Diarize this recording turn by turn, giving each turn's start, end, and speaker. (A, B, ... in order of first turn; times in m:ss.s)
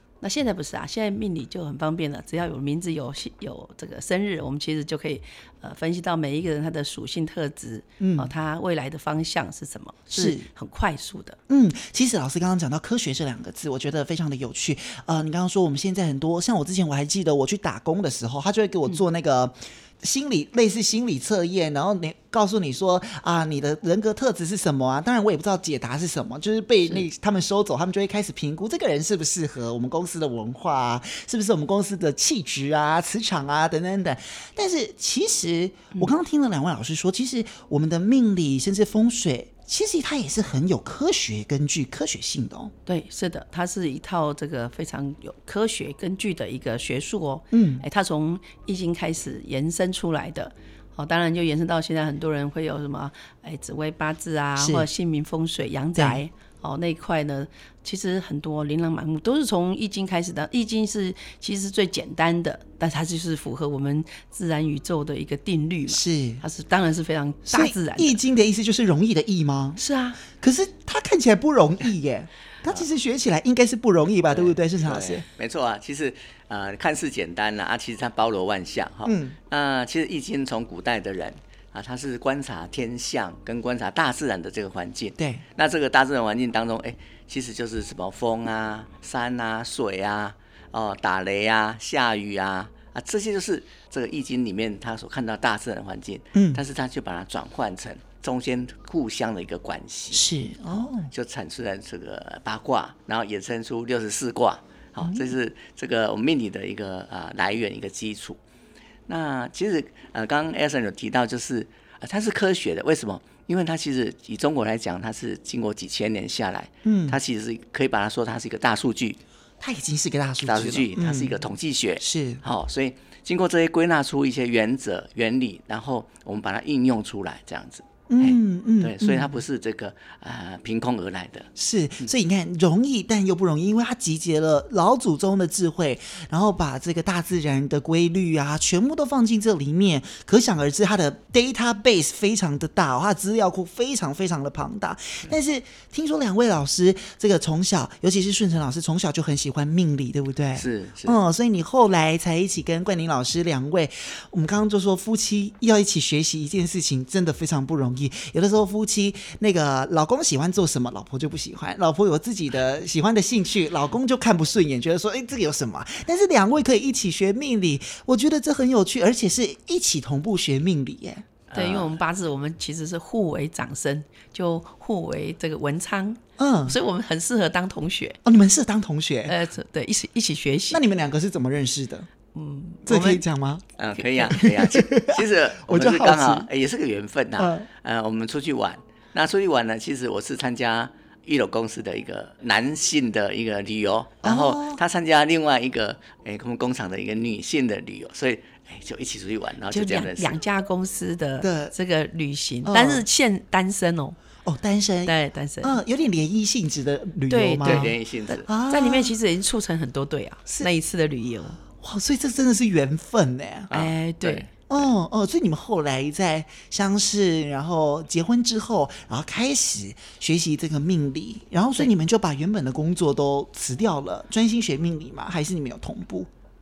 0:00.2-0:11.4 A
0:08.0-0:08.3 B
0:10.1-0:10.4 B
0:11.5-0:42.7 B
0:42.8-1:08.2 A
0:47.5-0:47.8 B
0:54.6-0:54.9 B
0:55.9-0:56.2 B
1:05.9-1:06.4 B
1:07.5-1:09.8 B
1:09.8-1:10.2 A
1:10.3-1:15.2 B
1:14.3-1:48.4 C
1:19.0-1:19.4 B
1:25.2-1:25.4 B
1:36.3-1:36.6 B
1:40.1-1:41.1 B
1:45.0-1:45.3 B
1:49.1-1:59.2 C
1:56.8-1:57.2 B
1:59.6-2:01.4 B
2:00.4-2:11.5 C
2:02.0-2:02.4 B
2:08.1-2:09.4 B
2:11.6-2:51.2 B
2:30.6-2:31.2 C
2:51.5-2:51.9 C
2:51.5-2:58.2 A
2:56.4-2:56.8 B
2:58.2-2:59.4 B
2:59.3-3:00.8 A
3:00.7-3:02.1 B
3:02.3-3:03.2 A
3:02.8-3:03.6 B
3:03.8-3:20.4 C
3:04.1-3:06.5 B
3:07.4-3:07.7 B
3:14.2-3:14.8 B
3:19.7-3:24.2 A
3:21.4-3:21.7 B
3:22.6-3:23.0 B
3:24.4-3:27.9 B
3:25.0-3:25.8 A
3:27.3-3:31.6 A
3:27.6-3:28.4 C
3:28.5-3:29.1 B
3:31.8-3:33.7 B
3:33.7-3:34.6 C
3:33.7-3:34.4 A
3:34.7-3:46.3 B